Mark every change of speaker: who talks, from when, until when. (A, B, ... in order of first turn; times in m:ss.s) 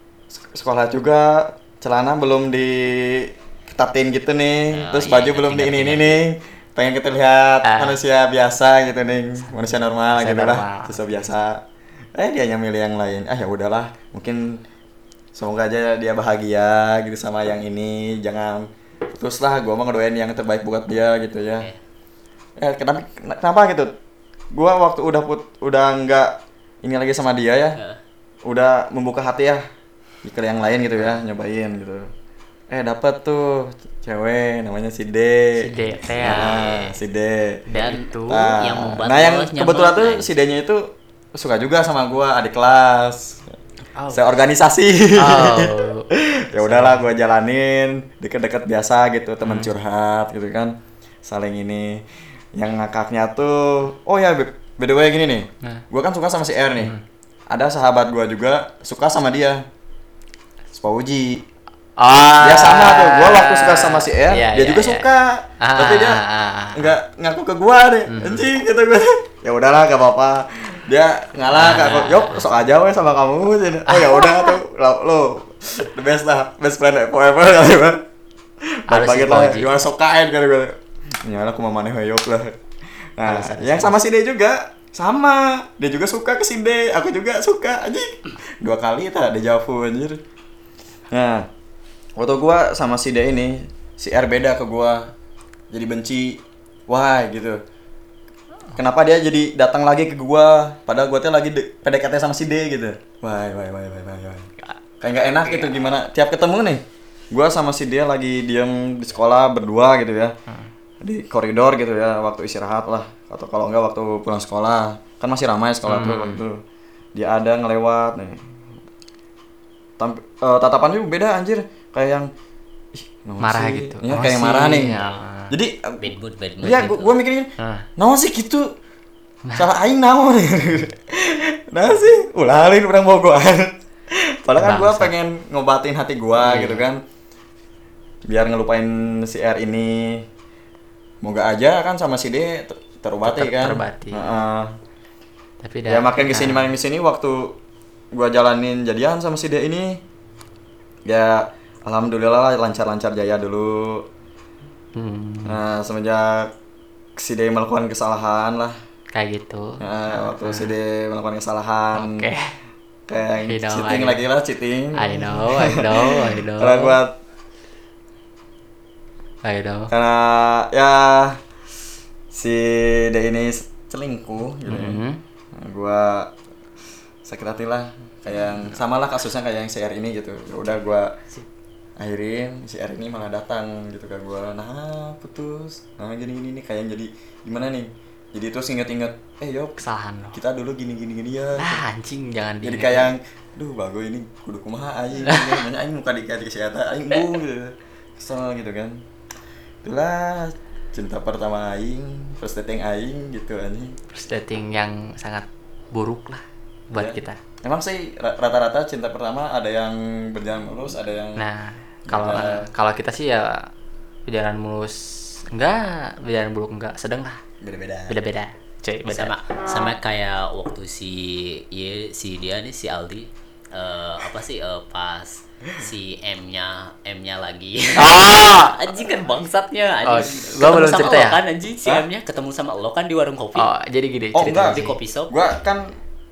0:00.4-0:11.6 A
0:04.7-0:06.2 B
0:07.7-0:08.0 C
0:10.1-0:11.2 C
0:12.2-0:14.6 A
0:15.4-0:21.7 A
0:22.6-0:23.9 A
0:24.5-0:27.8 A
0:28.4-0:29.6 A
0:30.2-0:32.1 A
0:32.7-0:37.6 A
0:35.6-0:36.9 C
0:37.7-0:38.6 C
0:37.7-0:40.3 B
0:38.3-0:43.5 A
0:44.0-0:44.4 C
0:44.1-0:50.7 A
0:45.2-0:46.1 C
0:46.6-0:47.0 C
0:49.4-0:49.7 C
0:51.2-0:56.9 A
0:57.5-0:59.6 A
1:00.7-1:01.4 A
1:02.0-1:05.1 C
1:02.4-1:06.2 A
1:05.6-1:06.9 C
1:06.7-1:18.0 A
1:08.1-1:08.4 C
1:11.5-1:12.4 C
1:13.9-1:14.6 C
1:18.6-1:22.6 A
1:18.9-1:19.7 C
1:23.2-1:30.2 A
1:23.2-1:24.0 C
1:31.1-1:31.5 A
1:32.2-1:35.1 A
1:35.7-1:37.6 A
1:38.8-1:44.5 A
1:44.6-1:45.8 C
1:45.0-1:50.3 A
1:51.0-1:56.6 A
1:55.9-1:56.4 C
1:57.1-1:58.4 A
2:00.0-2:02.3 A
2:03.0-2:05.0 A
2:03.4-2:05.5 C
2:04.9-2:05.2 B
2:05.5-2:08.7 A
2:06.0-2:07.1 B
2:07.6-2:07.9 C
2:09.6-2:17.0 A
2:14.6-2:15.1 C
2:16.4-2:16.9 C
2:18.3-2:20.2 A
2:21.2-2:24.7 A
2:23.2-2:24.3 C
2:25.6-2:26.7 C
2:25.9-2:27.5 A
2:28.1-2:30.0 A
2:31.0-2:34.0 A
2:35.0-2:35.6 C
2:35.4-2:36.5 A
2:37.2-2:38.8 A
2:39.1-2:40.7 C
2:39.8-2:42.2 A
2:42.0-2:42.5 C
2:43.1-2:47.2 A
2:43.4-2:44.2 C
2:45.0-2:47.0 C
2:49.4-2:49.9 C
2:49.9-2:51.4 A
2:52.3-2:55.0 A
2:54.7-2:55.2 C
2:55.6-2:56.3 A
2:57.2-3:01.1 A
3:02.0-3:09.8 A
3:09.8-3:10.4 C
3:10.4-3:11.8 A
3:11.6-3:13.1 C
3:12.6-3:19.0 A
3:15.3-3:15.6 C
3:19.8-3:24.0 A
3:24.1-3:27.4 C
3:26.9-3:31.4 A
3:31.4-3:33.6 C
3:32.1-3:32.7 A
3:34.3-3:37.4 C
3:37.6-3:38.2 A
3:38.1-3:39.3 C
3:39.1-3:53.7 B
3:48.0-3:48.7 C
3:50.0-3:51.4 C
3:53.6-3:55.0 C
3:54.3-3:55.9 A
3:54.4-3:55.3 B